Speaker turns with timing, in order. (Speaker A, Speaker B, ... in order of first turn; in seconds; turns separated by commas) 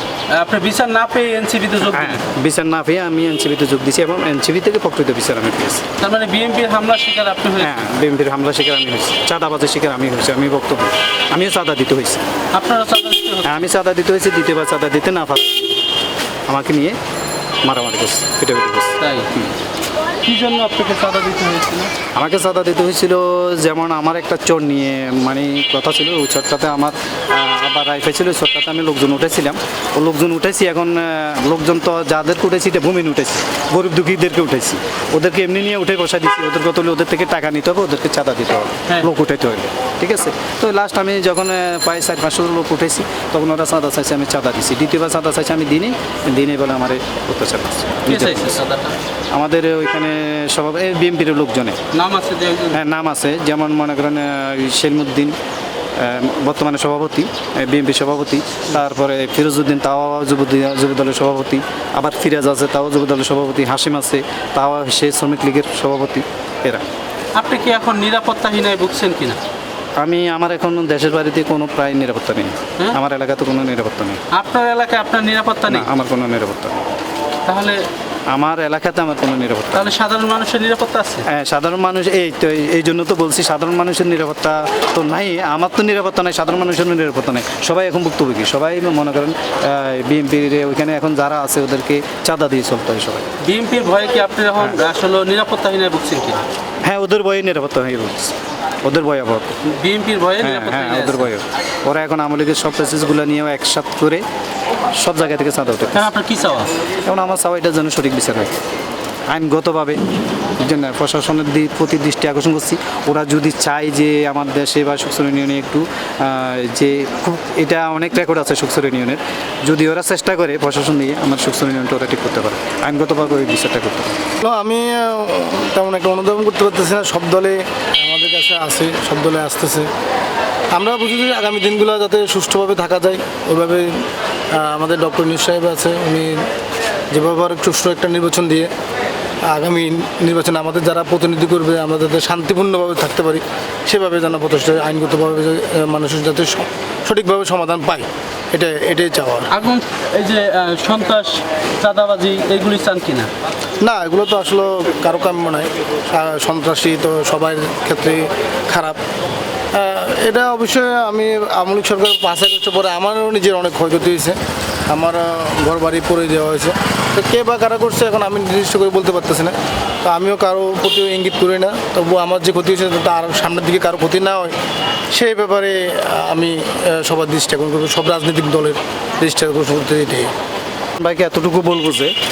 Speaker A: 0.3-2.2, Speaker B: 1.8-5.9, Speaker A: 6.0-7.9, Speaker B: 7.6-12.2, Speaker A: 12.5-13.6, Speaker B: 13.4-15.8, Speaker B: 16.5-17.0, Speaker B: 17.6-19.5, Speaker A: 19.0-19.3, Speaker A: 20.2-21.9, Speaker B: 22.1-48.6, Speaker A: 48.0-49.0, Speaker B: 49.3-51.8, Speaker A: 51.9-52.8, Speaker B: 52.7-55.4, Speaker B: 56.0-66.9, Speaker A: 67.3-69.4, Speaker B: 70.0-74.2, Speaker A: 74.3-75.9, Speaker B: 75.7-76.9, Speaker A: 77.5-77.8, Speaker B: 78.3-79.9, Speaker A: 79.7-81.3, Speaker B: 81.2-93.3, Speaker A: 93.4-96.4, Speaker B: 96.8-99.5, Speaker A: 99.6-101.3, Speaker B: 100.4-104.2, Speaker B: 105.0-106.1, Speaker A: 105.9-106.7, Speaker B: 107.0-108.5, Speaker B: 109.3-110.0, Speaker B: 110.6-124.2, Speaker C: 124.4-129.9, Speaker C: 130.7-136.4, Speaker C: 137.1-138.7, Speaker C: 139.5-149.5, Speaker A: 149.5-153.3, Speaker C: 153.8-159.0, Speaker C: 159.7-164.4, Speaker C: 164.9-174.5, Speaker C: 175.1-180.3, Speaker B: 181.0-182.1